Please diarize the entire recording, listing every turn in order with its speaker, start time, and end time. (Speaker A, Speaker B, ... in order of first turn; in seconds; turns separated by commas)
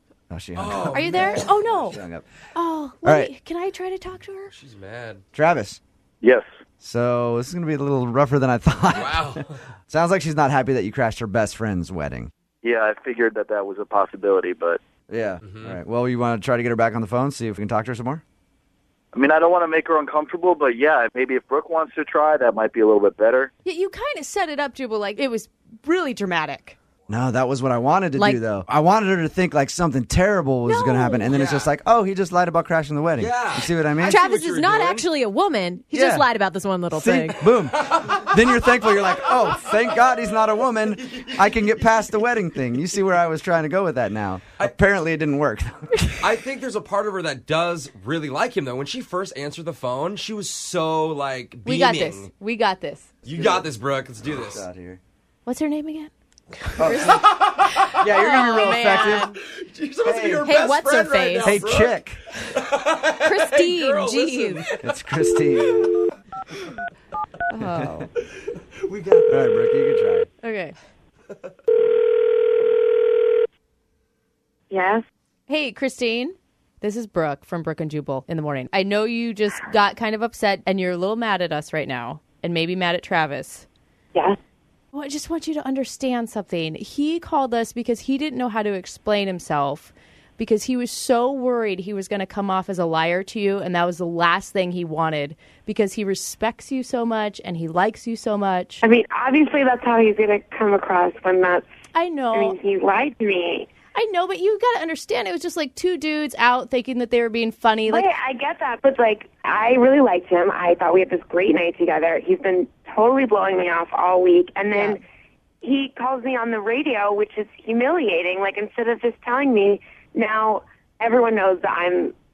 Speaker A: 0.3-2.2, Speaker B: 0.6-1.5, Speaker C: 0.9-2.0, Speaker C: 2.5-4.5, Speaker A: 3.0-3.3, Speaker B: 4.5-5.2, Speaker A: 5.3-5.8, Speaker A: 6.8-12.3, Speaker B: 8.9-9.5, Speaker D: 12.6-14.8, Speaker A: 15.1-18.2, Speaker B: 15.4-15.7, Speaker D: 19.1-23.5, Speaker C: 23.6-26.8, Speaker A: 27.1-34.2, Speaker C: 30.6-31.2, Speaker B: 31.2-31.7, Speaker B: 33.2-35.1, Speaker E: 34.0-37.5, Speaker A: 35.9-36.2, Speaker A: 36.9-46.3, Speaker B: 46.2-52.3, Speaker C: 51.6-53.0, Speaker B: 53.2-54.6, Speaker A: 53.3-53.7, Speaker A: 54.3-55.0, Speaker C: 55.4-56.1, Speaker A: 56.8-57.3, Speaker B: 56.8-64.9, Speaker A: 58.0-59.2, Speaker C: 58.0-59.3, Speaker A: 60.0-60.5, Speaker E: 60.4-61.4, Speaker C: 61.1-61.4, Speaker A: 61.4-62.2, Speaker E: 63.2-64.7, Speaker A: 64.8-65.9, Speaker C: 67.5-68.1, Speaker A: 67.7-68.0, Speaker B: 68.8-69.4, Speaker A: 69.3-70.3, Speaker C: 70.4-70.7, Speaker F: 74.7-75.0, Speaker C: 75.5-83.7, Speaker C: 84.9-98.8, Speaker F: 98.8-101.6, Speaker C: 101.9-102.5, Speaker F: 102.3-103.7, Speaker C: 103.9-108.0, Speaker F: 107.9-115.0, Speaker C: 114.7-115.0, Speaker F: 115.6-122.1